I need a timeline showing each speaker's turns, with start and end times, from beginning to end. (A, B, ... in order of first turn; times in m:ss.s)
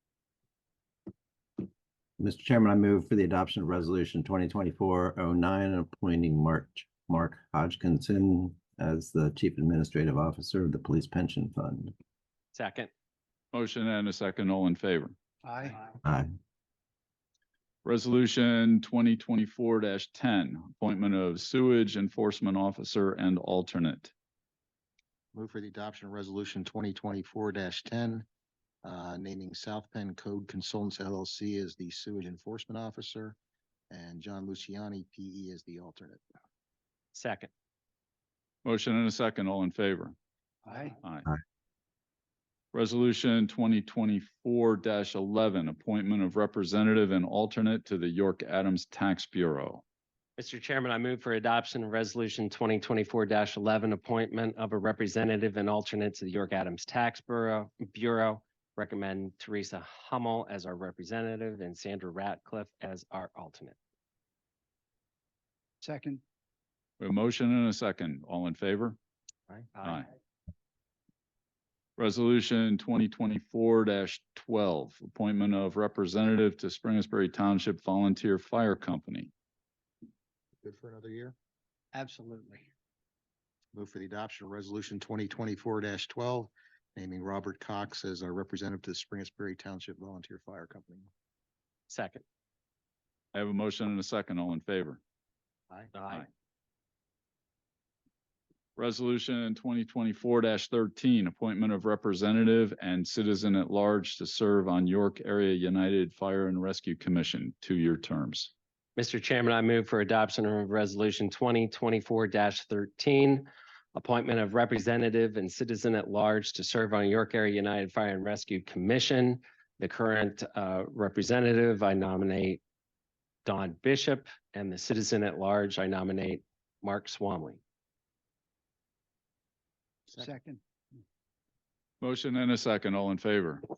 0:02.2-0:11.9 A
0:12.5-0:12.9 B
0:13.5-0:15.1 C
0:15.4-0:15.8 D
0:16.0-0:16.3 A
0:17.8-0:24.1 C
0:25.3-0:28.2 E
0:28.8-0:33.4 E
0:33.9-0:36.2 E
0:37.1-0:37.5 B
0:38.6-0:40.1 C
0:40.6-0:41.0 D
0:41.0-0:41.3 C
0:42.7-0:49.8 C
0:50.4-1:03.8 B
1:05.8-1:06.2 D
1:07.0-1:09.0 C
1:09.7-1:10.0 B
1:09.8-1:10.1 C
1:12.0-1:19.3 C
1:20.6-1:21.3 E
1:21.9-1:22.7 D
1:23.7-1:31.1 E
1:31.9-1:32.2 B
1:33.3-1:35.0 C
1:35.9-1:36.3 B
1:38.8-1:48.5 C
1:49.0-2:02.6 B
2:03.4-2:07.6 B
2:10.1-2:10.6 D
2:12.0-2:13.6 C